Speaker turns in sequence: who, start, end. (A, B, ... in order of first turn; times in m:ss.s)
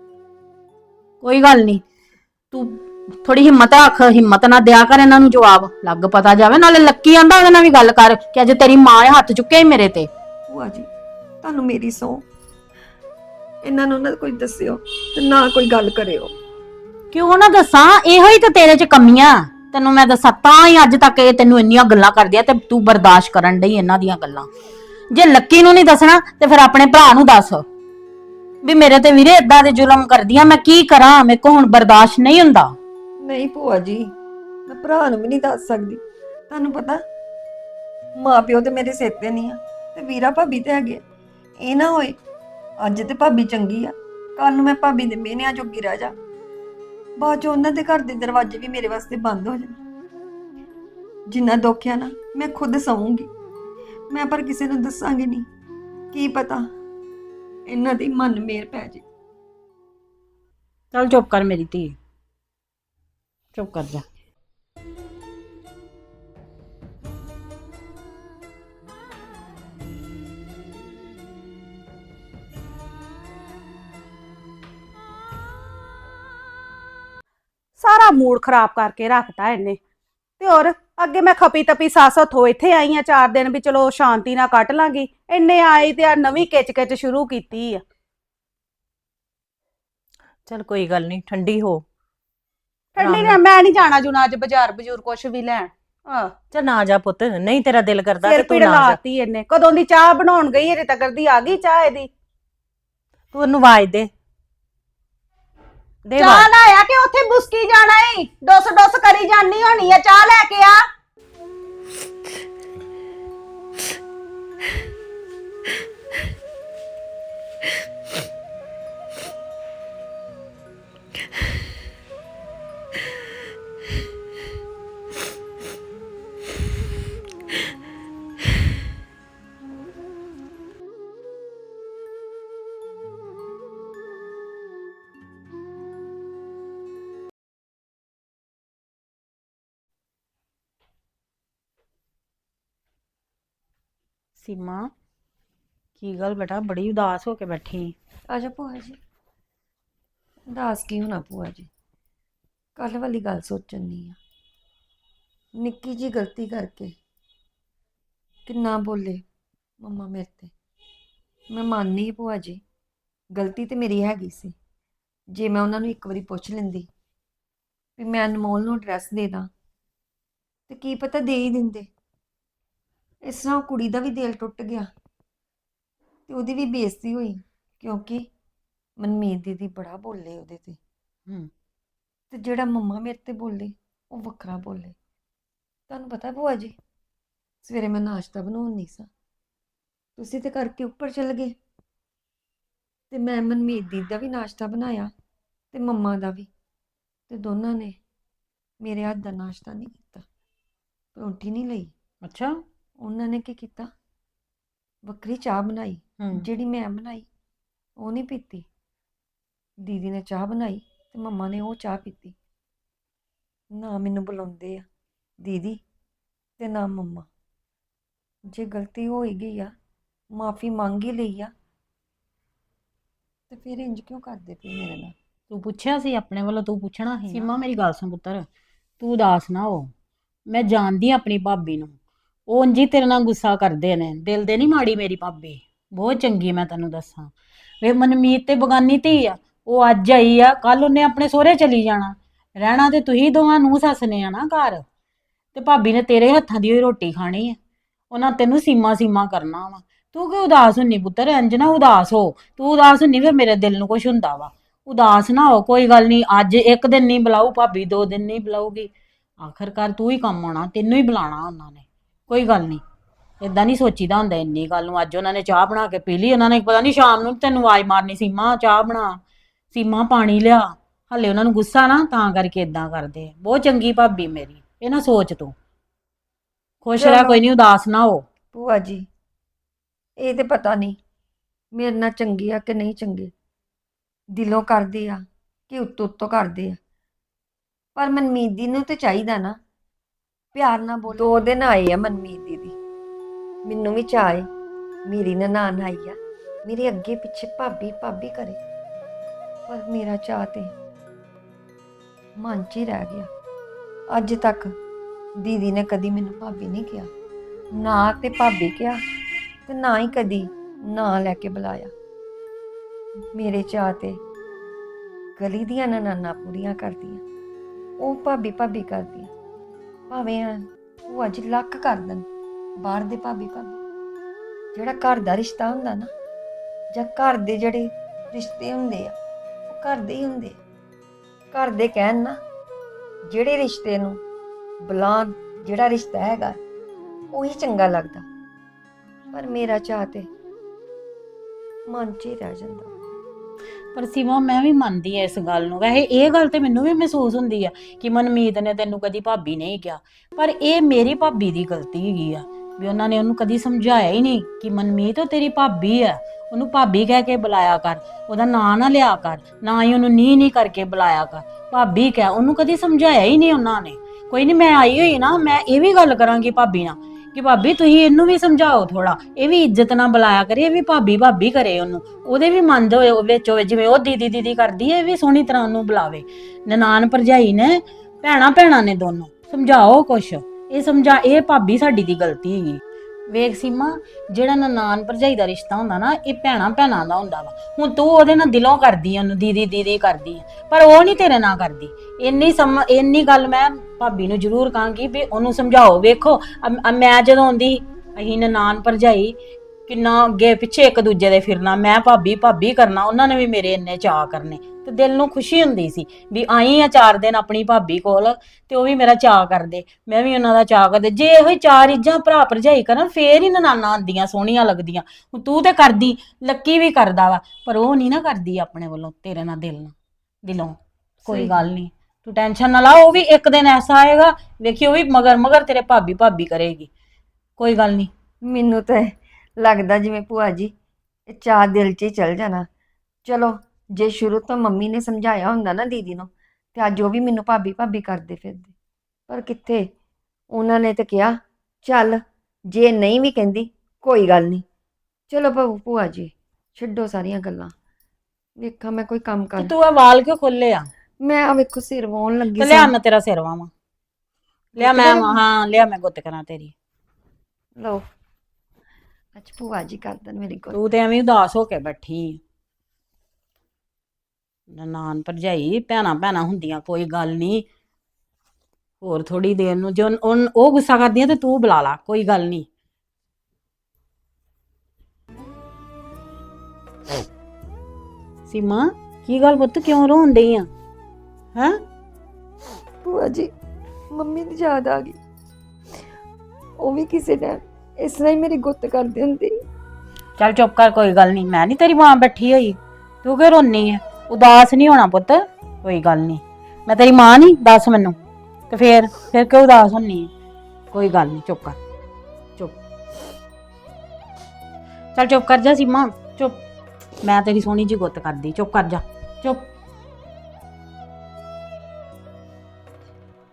0:01.2-0:01.8 A
0:02.5-0:10.1 A
0:10.5-0:10.9 B
0:11.4-0:12.2 B
0:13.6-0:16.3 B
0:17.1-0:24.5 A
0:25.1-0:27.6 A
0:28.6-0:32.7 A
0:33.2-0:34.1 B
0:34.7-0:37.0 B
0:38.2-0:41.0 B
0:41.6-0:42.2 B
0:42.8-0:46.1 B
0:47.2-0:49.8 B
0:51.3-0:53.3 B
0:54.1-0:55.4 B
0:56.1-0:56.6 B
0:57.7-0:59.0 B
1:00.9-1:02.0 A
1:03.5-1:04.0 A
1:17.8-1:19.8 C
1:20.4-1:27.8 C
1:30.4-1:31.8 D
1:32.9-1:36.3 C
1:33.0-1:33.4 D
1:36.5-1:39.0 D
1:38.2-1:42.1 C
1:43.3-1:44.1 D
1:46.0-1:46.5 D
1:46.2-1:50.8 C
2:24.4-2:24.9 A
2:26.0-2:27.9 A
2:28.3-2:29.0 B
2:30.5-2:31.7 B
2:32.8-2:34.2 B
2:35.6-2:36.9 B
2:38.5-2:39.2 B
2:39.8-2:40.5 B
2:41.5-2:42.6 B
2:43.4-2:44.5 B
2:45.3-2:46.9 B
2:48.0-2:49.5 B
2:50.7-2:51.9 B
2:53.3-2:54.8 B
2:56.3-2:58.3 B
2:59.0-3:00.8 B
3:02.3-3:04.9 B
3:05.9-3:06.7 B
3:07.6-3:09.1 B
3:10.2-3:11.5 B
3:13.1-3:15.1 B
3:15.7-3:16.5 B
3:17.3-3:18.0 B
3:18.8-3:20.2 B
3:21.2-3:21.9 B
3:22.2-3:22.5 A
3:23.0-3:23.9 B
3:25.0-3:27.3 B
3:28.0-3:28.6 B
3:29.8-3:32.3 B
3:33.7-3:34.8 B
3:35.4-3:35.8 B
3:36.6-3:37.3 B
3:38.5-3:39.7 B
3:40.3-3:41.5 B
3:43.5-3:45.1 B
3:45.5-3:48.4 A
3:49.0-3:49.9 A
3:50.5-3:51.9 A
3:52.5-4:04.8 A
4:05.5-4:07.6 A
4:08.1-4:22.8 A
4:23.4-4:29.2 A
4:29.7-4:35.5 A
4:36.8-4:38.2 A
4:37.0-4:37.4 B
4:38.5-4:39.0 B
4:40.2-4:41.0 B
4:41.8-4:43.3 B
4:44.3-4:46.8 B
4:48.0-4:49.6 B
4:50.5-4:52.8 B
4:53.6-4:54.4 B
4:55.1-4:58.6 B
4:59.7-5:00.7 B
5:02.4-5:03.3 B
5:04.1-5:04.7 B
5:05.4-5:07.1 B
5:07.8-5:09.0 B
5:09.7-5:11.9 B
5:13.3-5:14.2 B
5:15.4-5:17.2 B
5:18.0-5:19.3 B
5:20.1-5:22.2 B
5:22.8-5:23.8 B
5:24.7-5:26.1 B
5:26.9-5:29.1 B
5:29.7-5:30.6 B
5:31.5-5:32.4 B
5:33.3-5:34.2 B
5:34.8-5:36.6 B
5:37.3-5:38.2 B
5:39.3-5:40.3 B
5:41.9-5:42.9 B
5:43.9-6:39.4 A
6:39.9-6:59.9 A
7:00.4-7:06.9 A
7:01.3-7:01.7 B
7:07.6-7:08.1 A
7:08.5-7:10.7 B
7:11.3-7:12.6 B
7:13.2-7:18.7 B
7:19.3-7:19.9 B
7:20.5-7:22.2 B
7:22.7-7:24.6 B
7:25.3-7:27.7 B
7:28.6-7:29.7 B
7:29.6-7:30.9 A
7:31.2-7:32.9 B
7:32.6-7:33.7 A
7:34.8-7:36.7 A
7:34.8-7:35.4 B
7:39.3-7:40.9 B
7:40.7-7:42.4 A
7:44.7-7:47.6 A
7:49.0-7:52.6 A
7:58.5-8:00.7 A
8:03.0-8:03.5 B
8:04.1-8:05.2 B
8:06.8-8:09.5 B
8:10.4-8:18.2 A
8:18.7-8:20.3 A
8:20.9-8:21.8 A
8:25.1-8:26.6 A
8:27.2-8:29.7 A